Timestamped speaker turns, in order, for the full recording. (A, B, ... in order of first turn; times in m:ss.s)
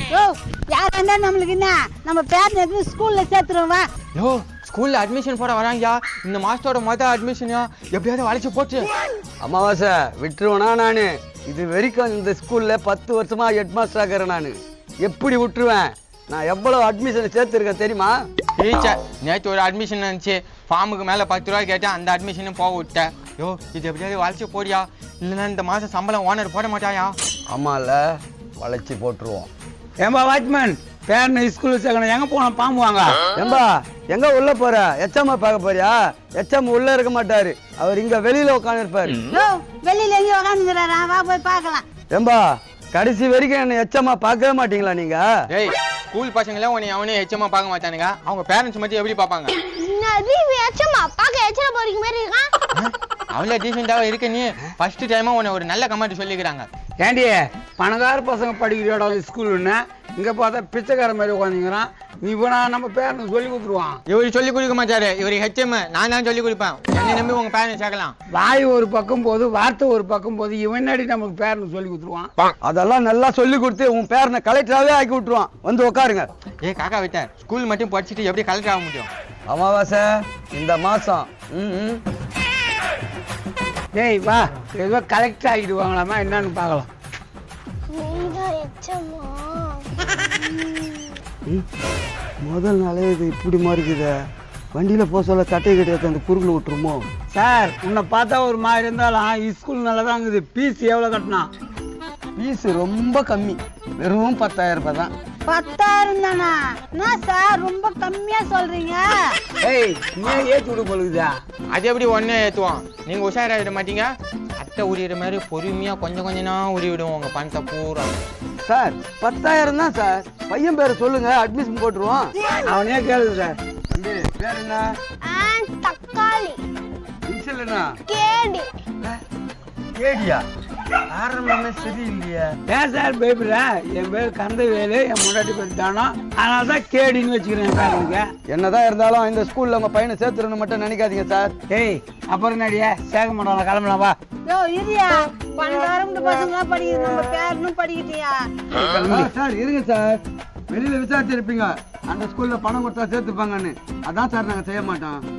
0:00.1-0:03.8 A
0:04.2-0:08.9 B
0:09.4-0:18.2 C
0:18.6-0:27.2 B
0:27.5-0:29.5 C
0:30.0-0:33.2 D
0:33.4-0:39.2 C
0:39.3-0:41.8 A
0:42.1-0:45.3 C
0:45.5-0:49.6 B
0:49.8-0:52.5 E
0:52.7-0:56.7 B
0:57.0-1:04.0 D
1:04.1-1:08.1 B
1:08.3-1:12.3 D
1:12.6-1:16.3 C
1:16.6-1:19.1 B
1:19.5-1:22.0 C
1:23.9-1:26.9 D
1:27.9-1:31.1 E
1:32.4-1:37.1 C
1:37.3-1:41.5 D
1:42.4-1:45.1 C
1:45.5-1:49.4 A
1:49.6-1:51.4 D
1:51.7-1:58.2 B
1:58.6-2:02.3 C
2:02.6-2:03.6 D
2:03.9-2:05.0 C
2:05.2-2:06.6 E
2:07.3-2:07.9 C
2:08.1-2:08.7 E
2:10.0-2:10.4 C
2:11.1-2:12.6 C
2:12.7-2:18.3 D
2:18.5-2:21.5 C
2:21.7-2:24.2 D
2:24.5-2:28.6 A
2:28.9-2:35.2 C